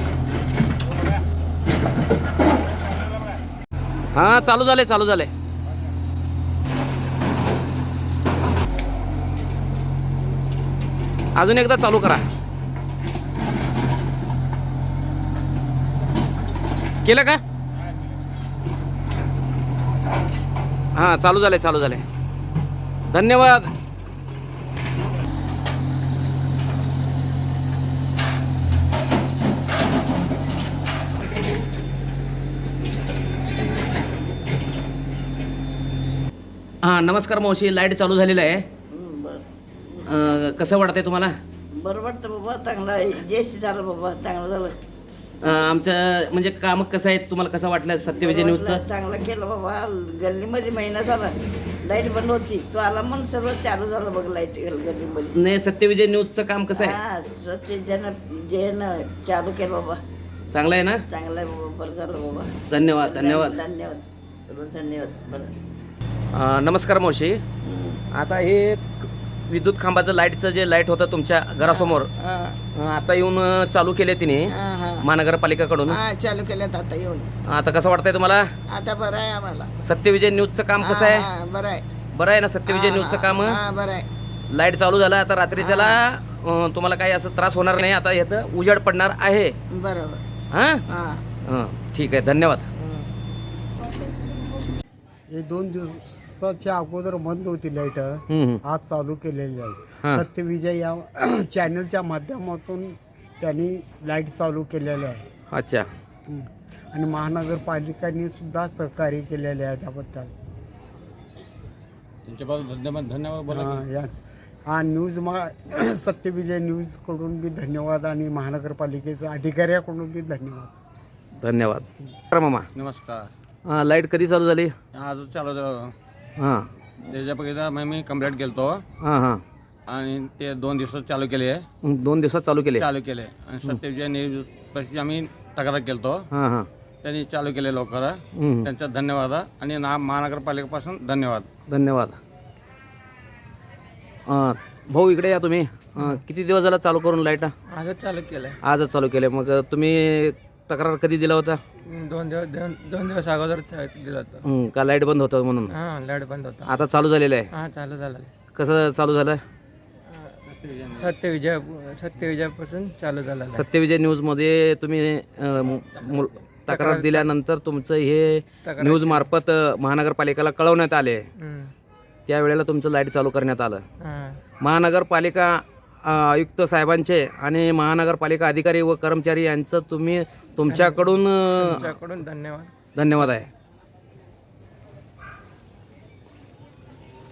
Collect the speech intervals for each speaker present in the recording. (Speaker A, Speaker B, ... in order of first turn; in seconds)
Speaker A: 4.1-5.3, 11.4-12.2, 17.0-17.4, 20.9-22.0, 23.1-23.7, 36.8-38.7, 40.1-41.3, 45.4-48.8, 55.3-57.0, 60.5-61.0, 62.7-63.6, 66.3-67.4, 68.1-72.1, 72.8-76.0, 77.5-78.5, 79.8-81.3, 82.1-83.6, 84.5-89.5, 90.5-90.8, 91.4-92.7, 98.3-98.6, 105.5-105.9, 121.4-122.7, 123.7-124.7, 126.4-126.7, 129.0-129.4, 131.8-132.9, 136.3-136.7, 138.4-138.7, 141.7-142.2, 144.3-147.5, 148.6-151.6, 154.4-155.7, 156.7-157.5, 158.6-159.4, 163.5-171.2, 172.3-173.8, 174.6-181.9, 182.9-183.5
Speaker B: 38.9-40.1, 41.7-44.8, 48.1-55.4, 56.8-60.0, 61.1-65.6, 67.6-68.0, 71.6-72.6, 74.5-75.1, 75.9-77.3, 78.7-79.7, 80.8-81.8, 82.7-84.0, 85.5-86.0, 89.7-90.2, 90.9-91.2, 92.8-93.0
Speaker C: 95.3-105.2, 106.3-110.3, 113.5-120.7
Speaker D: 112.2-113.8, 122.8-123.3, 124.9-125.9, 127.1-128.8, 129.9-131.7, 132.8-136.2, 137.0-141.5, 160.5-161.1
Speaker E: 147.7-148.6, 151.9-154.4, 155.7-156.7, 157.5-158.3, 161.0-163.7, 165.9-167.3, 168.6-169.3, 171.4-171.7, 174.0-174.4, 180.7-182.7